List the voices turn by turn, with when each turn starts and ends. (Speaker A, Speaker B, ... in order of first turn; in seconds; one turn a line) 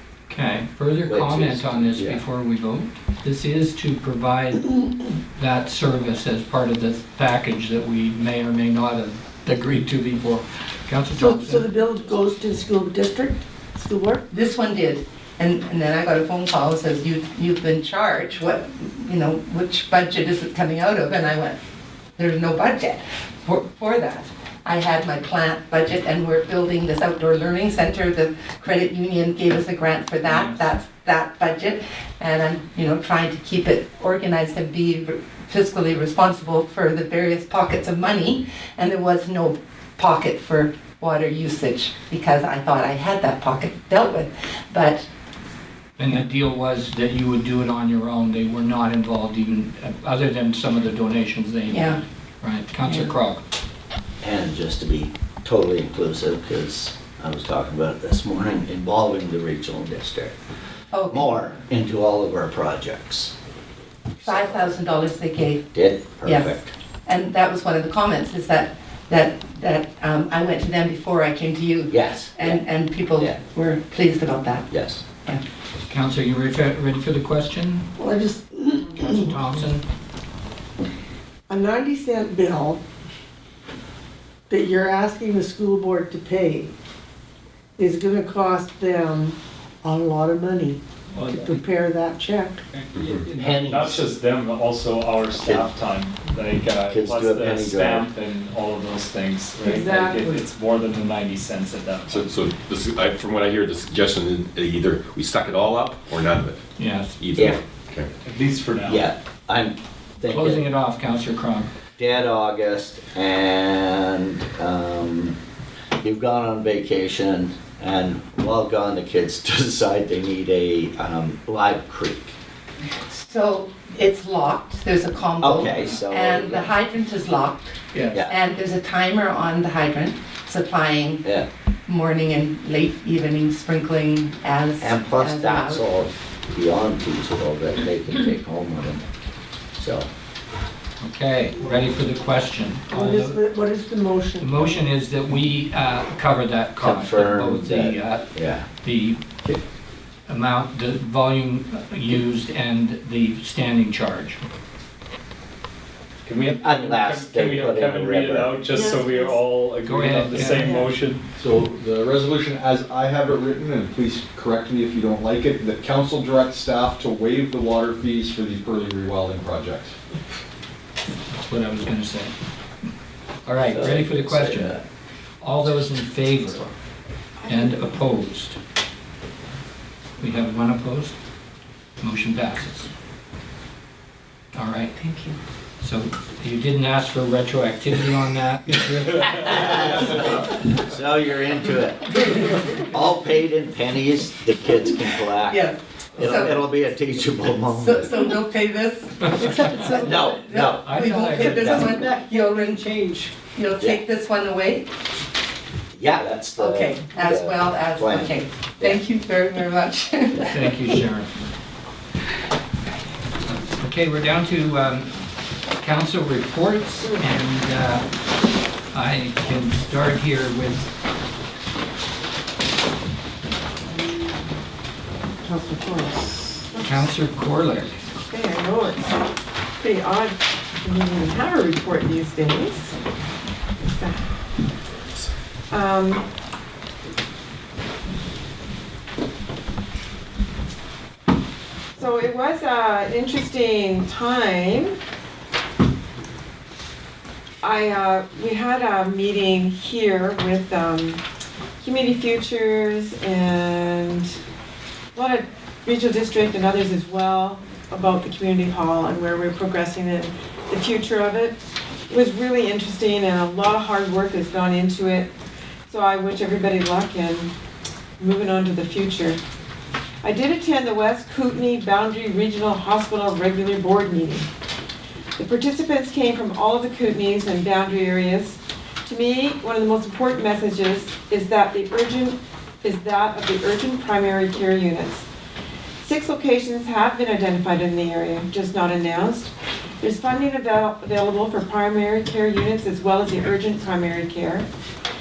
Speaker A: 0.3-4.8
Speaker B: 1.1-2.2
Speaker A: 5.4-11.7
Speaker C: 11.2-14.2
Speaker D: 14.3-21.6
Speaker D: 22.2-45.1
Speaker A: 46.0-53.4
Speaker D: 51.7-52.0
Speaker B: 54.2-60.3
Speaker D: 60.9-61.3
Speaker B: 61.1-63.3
Speaker B: 64.2-64.8
Speaker D: 64.2-65.7
Speaker B: 65.7-66.7
Speaker D: 66.2-66.5
Speaker D: 67.1-74.7
Speaker B: 71.9-72.6
Speaker B: 74.7-75.0
Speaker A: 75.9-77.9
Speaker C: 78.0-79.3
Speaker A: 79.0-79.8
Speaker C: 81.5-82.8
Speaker C: 84.5-86.7
Speaker C: 87.8-92.6
Speaker E: 93.0-93.3
Speaker F: 93.0-102.4
Speaker B: 93.3-94.0
Speaker B: 95.4-95.7
Speaker B: 96.9-98.1
Speaker C: 99.6-100.4
Speaker E: 102.1-106.6
Speaker A: 106.8-107.2
Speaker E: 107.2-108.1
Speaker F: 108.2-109.1
Speaker B: 108.8-110.7
Speaker A: 110.3-111.7
Speaker B: 112.0-115.4
Speaker B: 116.0-122.4
Speaker D: 122.9-131.2
Speaker B: 125.4-126.7
Speaker A: 127.9-128.2
Speaker D: 131.9-135.8
Speaker B: 134.8-139.0
Speaker B: 139.8-140.1
Speaker A: 141.0-143.4
Speaker C: 142.9-144.8
Speaker A: 144.4-148.3
Speaker B: 146.8-148.7
Speaker A: 148.8-149.2
Speaker A: 150.3-154.4
Speaker F: 156.2-161.2
Speaker B: 156.6-158.6
Speaker C: 158.7-159.4
Speaker A: 159.8-160.8
Speaker C: 160.6-160.9
Speaker G: 161.4-170.0
Speaker A: 171.4-172.3
Speaker A: 173.5-174.8
Speaker B: 173.7-174.8
Speaker A: 175.4-176.7
Speaker A: 177.5-178.6
Speaker A: 180.2-181.2
Speaker A: 182.0-182.9
Speaker A: 184.5-184.9
Speaker D: 185.0-185.4
Speaker A: 185.8-189.5
Speaker B: 189.3-198.1
Speaker D: 195.5-196.6
Speaker D: 197.7-202.1
Speaker C: 199.6-200.1
Speaker B: 200.0-200.9
Speaker A: 200.7-201.9
Speaker B: 201.4-201.9
Speaker C: 201.6-203.3
Speaker D: 203.5-204.9
Speaker B: 205.9-209.0
Speaker D: 206.6-210.7
Speaker A: 210.5-211.3
Speaker A: 213.6-215.1
Speaker A: 215.8-218.0
Speaker A: 218.9-220.9
Speaker H: 225.4-227.0
Speaker A: 226.8-227.9
Speaker H: 228.3-229.2
Speaker H: 229.8-232.9
Speaker H: 233.8-234.3
Speaker H: 235.7-236.2
Speaker H: 242.0-244.9
Speaker H: 247.6-251.2
Speaker H: 251.8-254.2
Speaker H: 255.2-261.6
Speaker H: 262.1-265.3
Speaker H: 265.9-267.5
Speaker H: 268.2-269.4
Speaker H: 270.2-274.5
Speaker H: 275.4-285.2
Speaker H: 286.0-289.5
Speaker H: 290.0-294.6